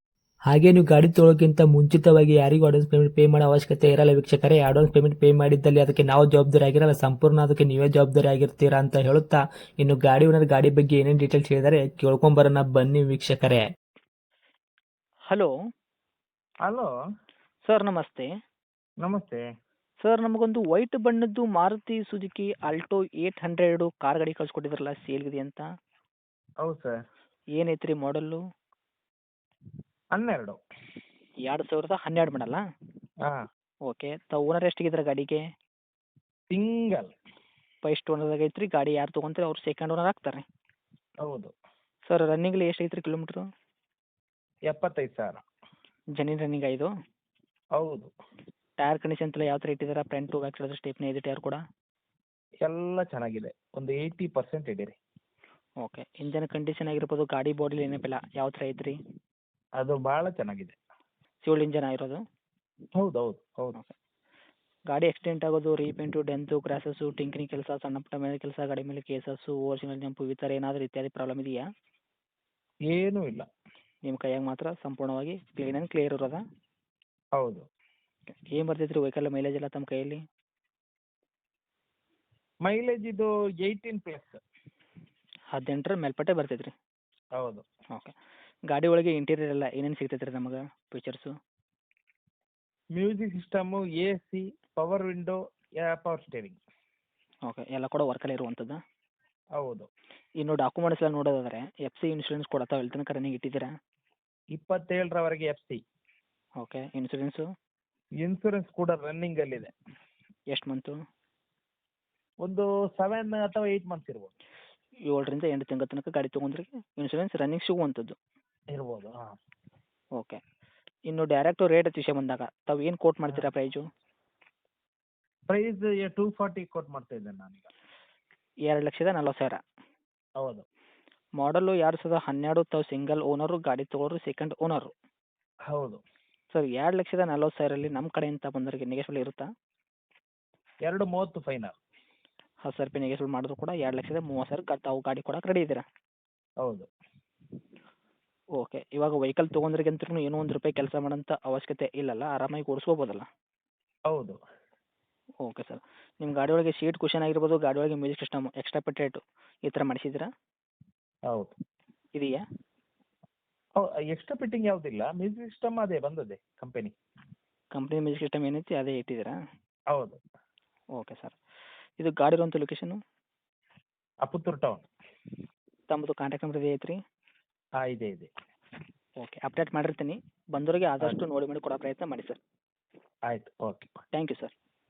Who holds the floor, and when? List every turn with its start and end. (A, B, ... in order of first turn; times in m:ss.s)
0:00.5-0:13.6 A
0:17.7-0:18.3 B
0:19.0-0:19.4 C
0:20.0-0:25.6 B
0:26.6-0:27.0 C
0:27.6-0:28.4 B
0:30.2-0:30.6 C
0:31.4-0:32.6 B
0:33.8-0:35.4 B
0:36.5-0:37.1 C
0:37.8-0:40.4 B
0:41.2-0:41.5 C
0:42.1-0:43.5 B
0:44.7-0:45.4 C
0:46.2-0:46.9 B
0:47.8-0:48.1 C
0:48.8-0:51.6 B
0:52.6-0:55.0 C
0:55.8-0:59.0 B
0:59.8-1:00.8 C
1:01.5-1:02.2 B
1:03.0-1:03.8 C
1:04.9-1:11.6 B
1:12.9-1:13.5 C
1:14.1-1:16.4 B
1:17.4-1:17.7 C
1:18.5-1:20.2 B
1:22.7-1:24.4 C
1:25.5-1:26.7 B
1:27.4-1:27.7 C
1:28.7-1:31.3 B
1:33.0-1:36.6 C
1:37.5-1:38.8 B
1:39.6-1:39.9 C
1:40.4-1:43.7 B
1:44.5-1:45.8 C
1:46.6-1:47.4 B
1:48.2-1:49.7 C
1:50.5-1:50.9 B
1:52.4-1:54.3 C
1:55.1-1:58.2 B
1:58.7-1:59.3 C
2:01.1-2:03.9 B
2:05.5-2:07.7 C
2:08.7-2:09.6 B
2:10.4-2:10.7 C
2:11.4-2:14.9 B
2:15.7-2:16.0 C
2:16.5-2:19.5 B
2:20.8-2:21.8 C
2:22.6-2:25.8 B
2:26.6-2:26.9 C
2:28.6-2:33.2 B
2:34.1-2:34.4 C
2:35.4-2:40.3 B
2:41.3-2:41.6 C
2:42.2-2:42.4 B
2:43.8-2:46.9 C
2:47.8-2:49.3 B
2:49.9-2:50.2 C
2:51.0-2:51.4 B
2:52.0-2:53.0 B
2:54.2-2:54.9 C
2:55.9-2:57.0 B
2:57.8-2:58.3 C
2:59.2-3:02.4 B
3:03.3-3:03.9 C
3:04.1-3:04.5 B